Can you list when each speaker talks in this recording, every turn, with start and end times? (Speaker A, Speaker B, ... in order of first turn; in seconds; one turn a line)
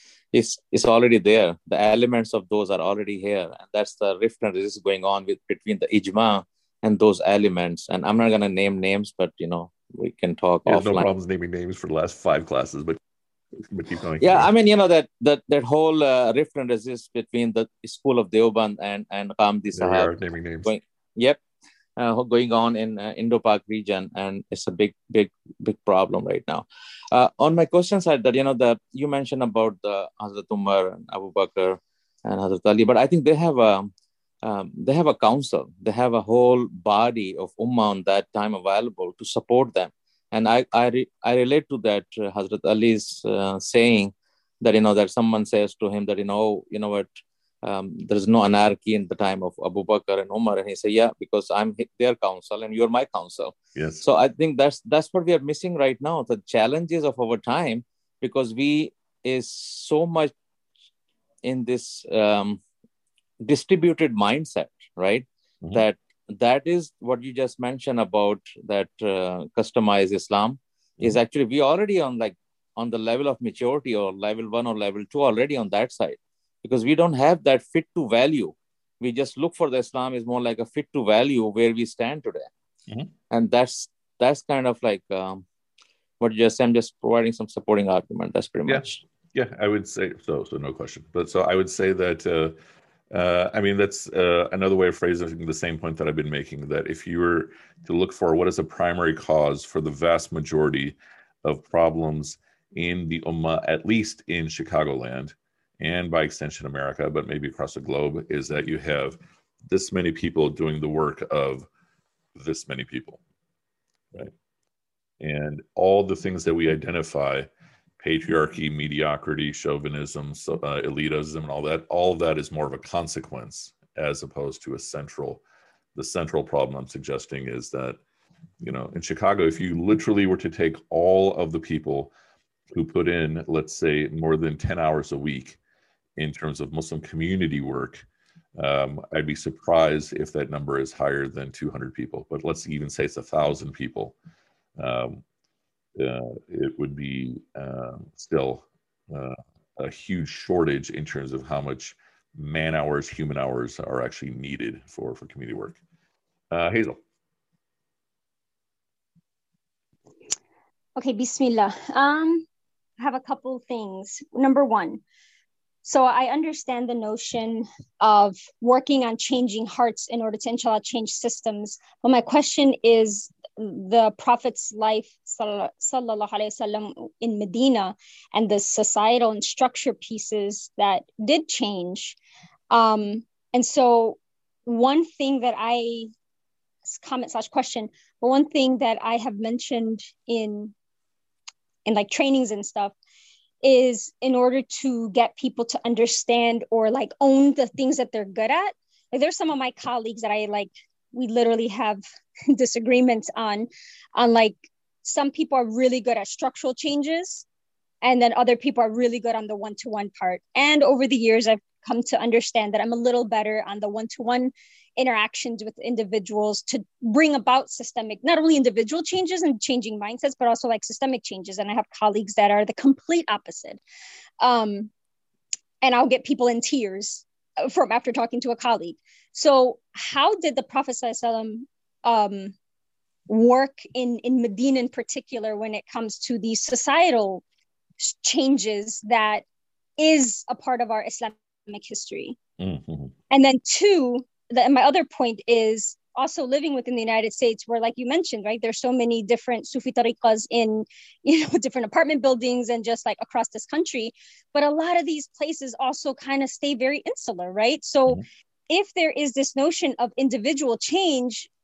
Speaker A: 0.3-11.1
Speaker B: 10.7-13.0
Speaker B: 13.6-14.5
Speaker A: 14.2-20.1
Speaker B: 19.7-20.7
Speaker A: 20.6-21.4
Speaker A: 22.0-33.9
Speaker A: 34.4-60.3
Speaker B: 53.8-54.0
Speaker A: 61.4-62.6
Speaker A: 63.4-82.5
Speaker A: 83.3-85.4
Speaker A: 86.2-89.0
Speaker B: 88.7-92.6
Speaker B: 93.1-111.7
Speaker B: 112.4-113.2
Speaker B: 115.2-117.5
Speaker B: 118.0-125.4
Speaker B: 126.0-128.0
Speaker B: 128.6-132.1
Speaker B: 132.7-135.6
Speaker B: 136.2-138.0
Speaker B: 138.6-144.2
Speaker B: 144.8-145.2
Speaker B: 146.0-155.8
Speaker B: 156.5-157.0
Speaker C: 161.0-162.5
Speaker C: 163.0-165.0
Speaker C: 165.8-182.2
Speaker C: 182.7-186.1
Speaker C: 186.9-190.7
Speaker C: 191.9-192.9
Speaker C: 193.6-207.5
Speaker C: 208.0-223.8
Speaker C: 224.4-224.9
Speaker C: 225.8-232.6
Speaker C: 233.3-237.4
Speaker C: 238.0-239.4
Speaker C: 240.0-242.4
Speaker B: 242.6-243.1
Speaker C: 243.3-261.5